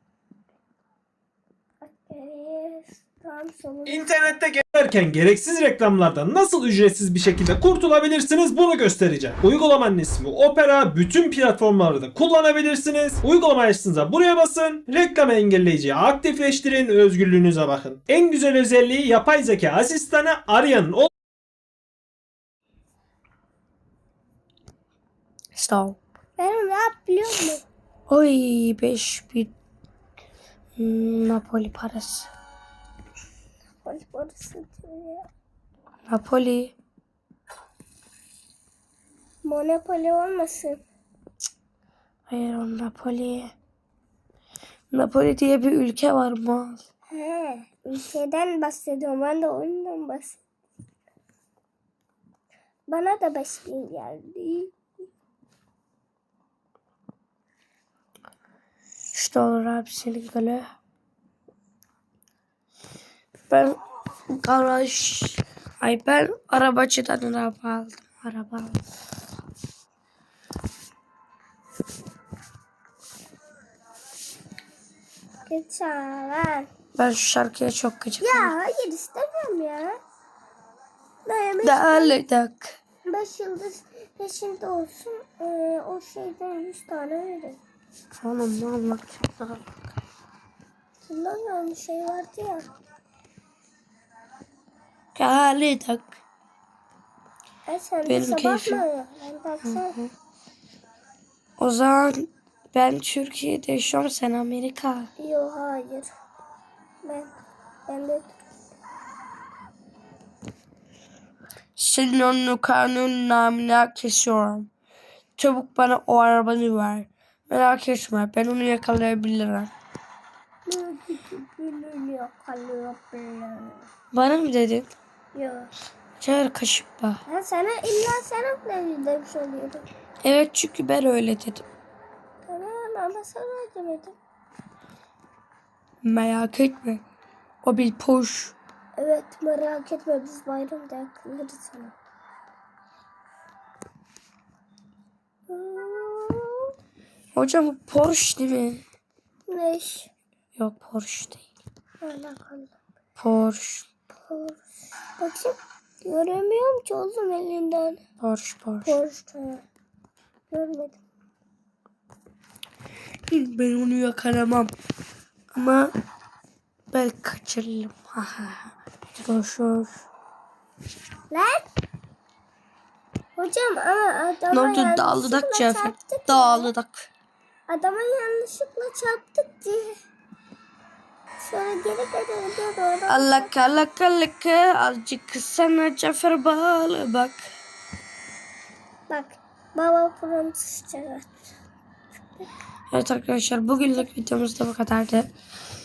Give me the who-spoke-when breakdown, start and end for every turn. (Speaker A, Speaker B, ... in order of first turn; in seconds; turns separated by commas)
Speaker A: 1.8-4.3, Speaker B: 3.9-21.1, Speaker C: 25.5-26.0, Speaker A: 26.4-27.6, Speaker C: 28.1-29.5, Speaker C: 30.8-32.3, Speaker A: 33.8-35.3, Speaker C: 36.1-36.7, Speaker A: 39.4-40.8, Speaker C: 42.3-43.5, Speaker C: 44.9-46.8, Speaker A: 47.1-50.4, Speaker A: 52.9-54.7, Speaker C: 59.1-60.6, Speaker C: 63.5-63.8, Speaker C: 64.3-68.8, Speaker A: 75.5-76.7, Speaker C: 77.0-78.5, Speaker A: 78.2-80.0, Speaker A: 81.2-82.2, Speaker C: 81.6-82.8, Speaker A: 83.0-87.6, Speaker C: 88.2-89.9, Speaker A: 91.0-92.7, Speaker C: 95.1-96.2, Speaker A: 97.7-100.0, Speaker C: 98.0-98.8, Speaker C: 99.6-100.1, Speaker C: 101.6-105.1, Speaker A: 105.2-106.1, Speaker A: 107.0-107.3, Speaker A: 107.9-108.3, Speaker C: 111.8-114.7, Speaker C: 115.4-119.7, Speaker A: 120.7-123.9, Speaker C: 124.1-124.9, Speaker A: 125.3-125.7, Speaker C: 126.2-127.2, Speaker A: 127.2-129.9, Speaker C: 130.2-131.6, Speaker A: 132.4-134.2, Speaker C: 136.0-137.0, Speaker C: 137.6-138.5, Speaker A: 138.9-141.9, Speaker A: 145.5-146.7, Speaker C: 147.3-148.8, Speaker A: 149.5-150.1, Speaker C: 150.6-151.5, Speaker A: 152.0-152.7, Speaker C: 153.2-153.9, Speaker A: 154.3-154.6, Speaker A: 155.2-158.0, Speaker C: 158.2-158.9, Speaker A: 158.8-159.6, Speaker A: 160.5-161.0, Speaker C: 163.3-164.7, Speaker C: 165.5-165.9, Speaker C: 166.9-170.0, Speaker A: 171.3-171.7, Speaker A: 173.3-176.7, Speaker C: 174.5-177.1, Speaker A: 177.7-179.9, Speaker A: 181.4-183.5, Speaker C: 183.1-187.5, Speaker A: 189.1-191.4, Speaker C: 192.9-195.3